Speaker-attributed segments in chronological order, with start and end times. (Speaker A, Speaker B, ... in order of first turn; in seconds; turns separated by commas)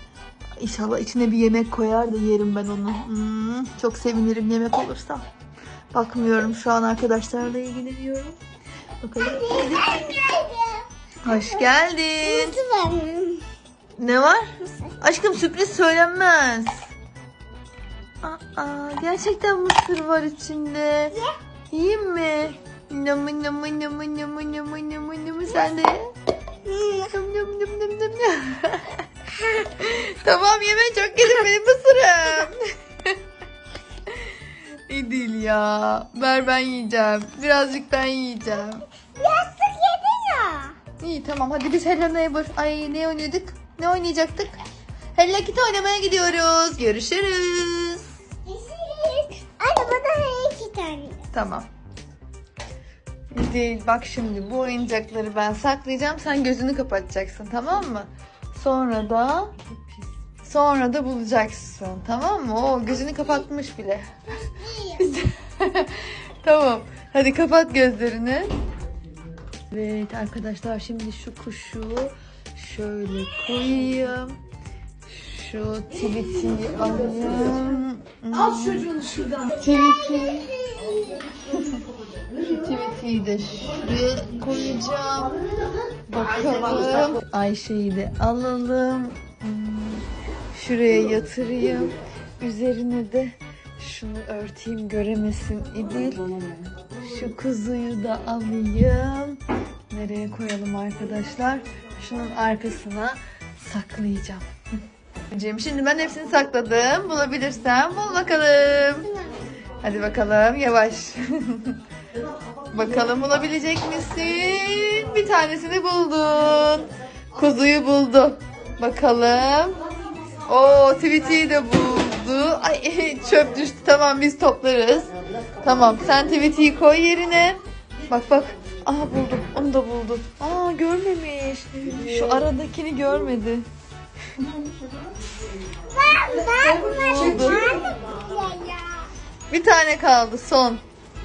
Speaker A: 0.6-5.2, Speaker A: 5.9-8.4, Speaker A: 9.0-10.0, Speaker B: 9.2-13.5, Speaker A: 11.2-12.6, Speaker A: 14.0-14.5, Speaker B: 14.6-14.9, Speaker A: 15.0-16.7, Speaker A: 18.2-21.2, Speaker A: 21.7-26.1, Speaker A: 26.7-33.2, Speaker A: 34.1-34.3, Speaker A: 34.9-38.8, Speaker B: 39.2-40.8, Speaker A: 41.0-44.6, Speaker A: 45.1-48.1, Speaker B: 48.4-51.2, Speaker A: 51.3-51.7, Speaker A: 53.3-59.5, Speaker A: 60.4-64.1, Speaker B: 63.0-63.4, Speaker B: 64.3-65.1, Speaker A: 65.0-68.5, Speaker A: 69.7-74.4, Speaker A: 75.1-80.5, Speaker B: 79.5-81.3, Speaker A: 82.5-85.3, Speaker A: 86.1-96.3, Speaker A: 97.0-99.4, Speaker A: 99.9-104.4, Speaker A: 105.3-109.1, Speaker B: 109.0-109.4, Speaker A: 109.8-111.8, Speaker A: 112.7-119.8, Speaker A: 120.5-125.1, Speaker A: 125.6-133.7, Speaker B: 135.9-139.1, Speaker A: 136.7-137.7, Speaker A: 139.5-140.8